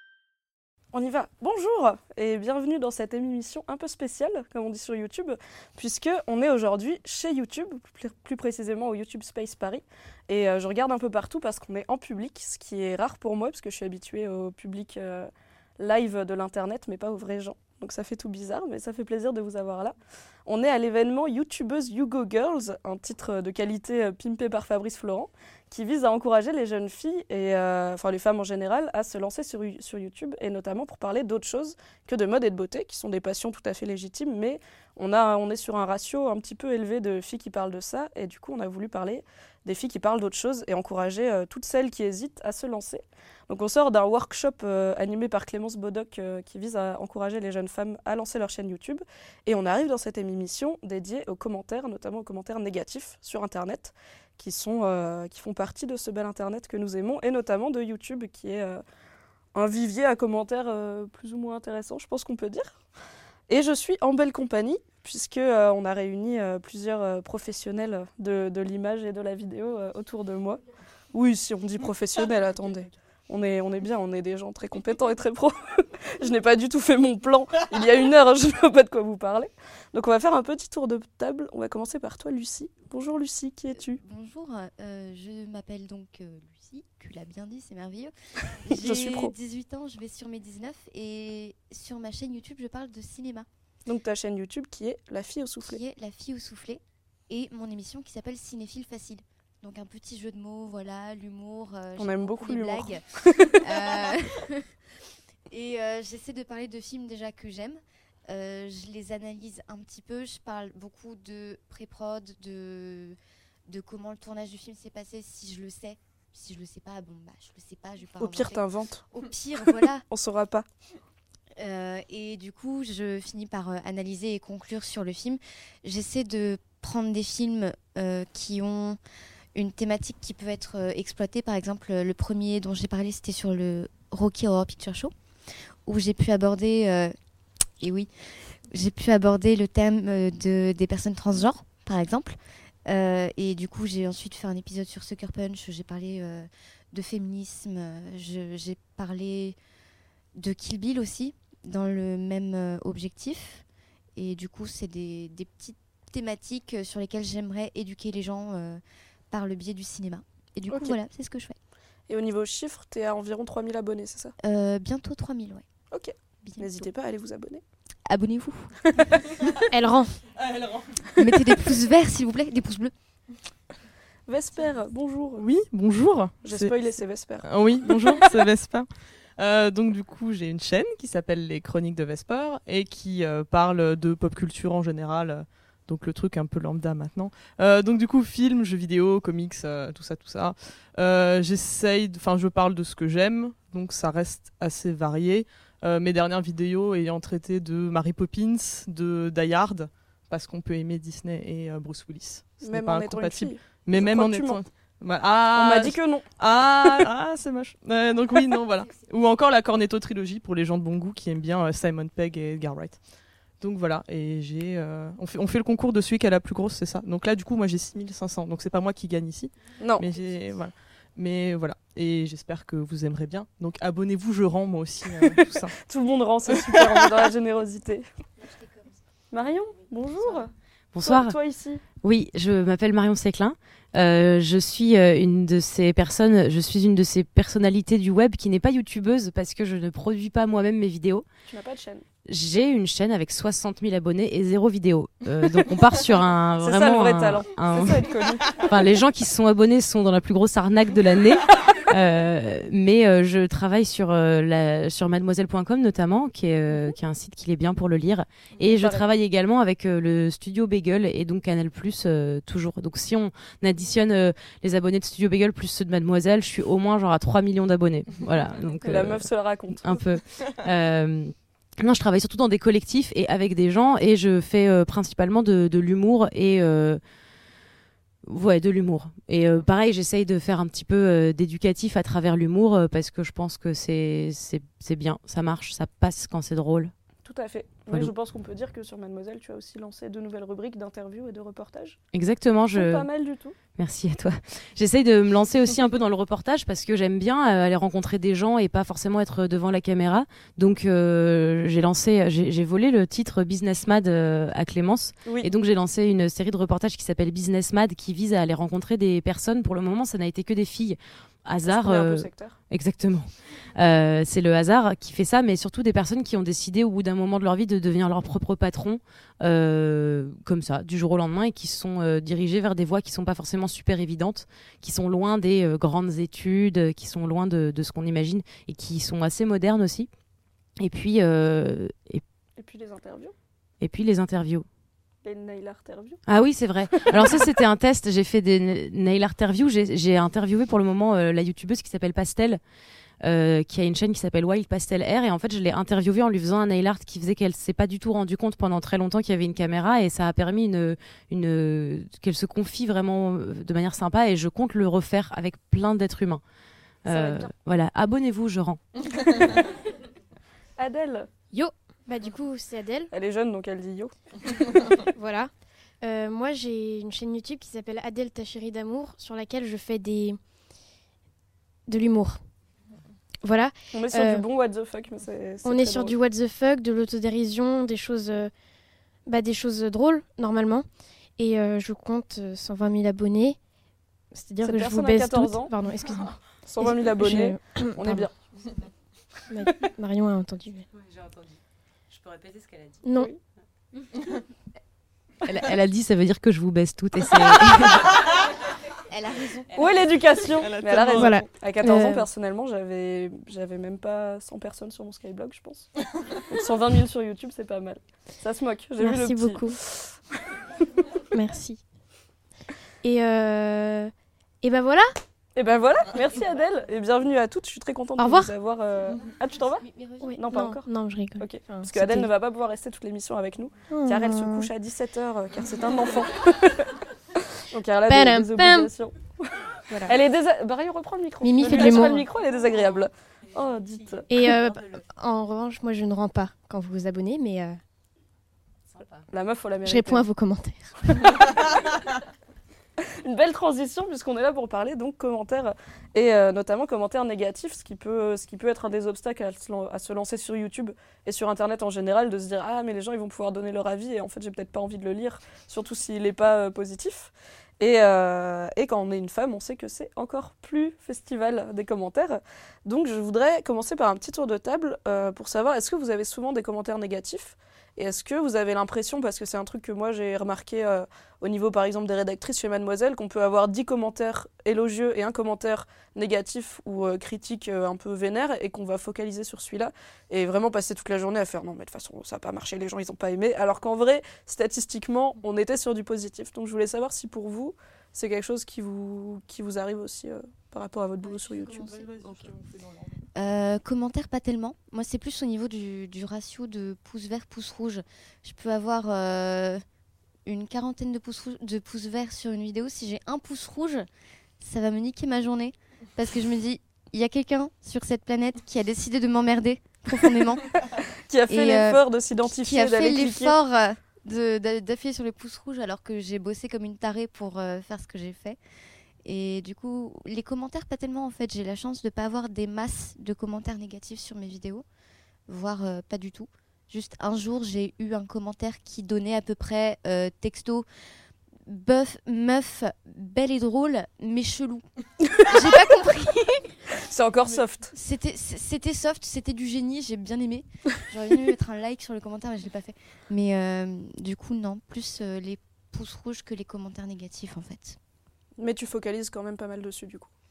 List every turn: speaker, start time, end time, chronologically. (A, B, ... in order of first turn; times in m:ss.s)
0:00.9-0:20.0 A
0:20.5-0:58.8 A
0:59.5-1:02.8 A
1:03.5-1:10.6 A
1:11.1-1:24.0 A
1:23.8-1:33.5 B
1:28.7-1:29.3 A
1:33.9-1:35.8 A
1:35.6-1:44.8 B
1:42.0-1:43.7 A
1:45.5-2:00.0 B
1:58.2-1:59.0 A
2:00.1-2:00.6 A
2:01.6-2:09.0 B
2:09.6-2:15.1 B
2:15.8-2:17.1 B
2:17.8-2:18.1 B
2:18.7-2:29.6 B
2:30.4-2:33.6 B
2:34.2-2:41.6 B
2:42.1-2:44.4 A
2:44.4-2:45.7 B
2:45.9-2:47.6 A
2:46.4-2:46.9 B
2:48.1-2:49.0 B
2:49.7-2:50.2 C
2:50.4-2:51.2 D
2:51.2-2:52.9 B
2:54.3-2:55.4 A
2:55.4-2:56.8 D
2:56.4-2:58.2 A
2:57.4-3:33.0 D
3:22.6-3:24.6 A
3:25.6-3:26.3 A
3:33.6-3:45.7 D
3:39.8-3:40.0 A
3:45.8-3:48.0 A
3:48.4-3:48.9 B
3:49.3-3:50.5 A
3:50.9-3:51.4 E
3:51.0-3:51.8 A
3:52.0-4:01.3 E
4:01.5-4:02.0 A
4:02.3-4:29.3 E
4:06.6-4:08.8 A
4:18.6-4:19.0 A
4:28.8-4:30.0 A
4:29.8-4:37.0 E
4:38.3-4:46.9 E
4:47.2-4:52.0 A
4:52.1-4:53.1 E
4:52.7-4:53.6 A
4:53.8-5:30.1 E
5:11.7-5:12.6 A
5:30.8-5:32.2 E
5:32.6-5:33.3 A
5:33.8-5:34.7 E
5:35.2-5:36.2 A
5:36.3-5:42.6 E
5:37.1-5:37.4 A
5:43.2-5:56.4 E
5:57.0-5:58.8 E
5:57.1-5:57.5 A
6:00.8-6:01.3 A
6:01.5-6:03.1 C
6:03.1-6:04.1 A
6:05.0-6:10.4 C
6:11.9-6:12.4 C
6:13.4-6:14.5 C
6:13.9-6:16.1 A
6:15.6-6:18.5 C
6:19.2-6:23.6 C
6:24.3-6:28.3 C
6:24.6-6:25.7 A
6:26.6-6:28.3 A
6:29.5-6:30.9 C
6:31.0-6:31.6 E
6:32.1-6:33.0 E
6:33.0-6:33.3 C
6:35.4-6:38.1 E
6:39.1-6:39.7 B
6:39.7-6:50.2 A
6:40.6-6:41.4 D
6:41.1-6:42.3 C
6:49.0-6:49.8 C
6:51.3-6:51.8 C
6:53.0-6:55.1 C
6:55.6-6:59.8 A
6:58.2-6:58.5 C
6:59.8-7:00.4 B
7:00.2-7:02.3 C
7:00.4-7:00.9 A
7:01.4-7:07.0 A
7:03.9-7:04.7 C
7:07.7-7:14.5 A
7:08.1-7:08.9 C
7:09.9-7:10.2 C
7:11.4-7:12.3 C
7:14.3-7:17.8 C
7:19.3-7:20.3 A
7:19.8-7:21.4 C
7:23.2-8:12.0 A
8:11.2-8:12.5 B
8:11.7-8:13.2 D
8:13.3-8:19.8 B
8:20.4-8:24.1 B
8:24.6-8:30.8 B
8:31.3-8:33.6 A
8:31.5-8:38.6 B
8:39.2-8:44.8 B
8:45.5-8:50.9 B
8:51.7-8:54.9 B
8:55.5-8:56.6 B
8:57.0-8:57.9 A
8:57.9-9:08.0 B
9:08.6-9:10.3 A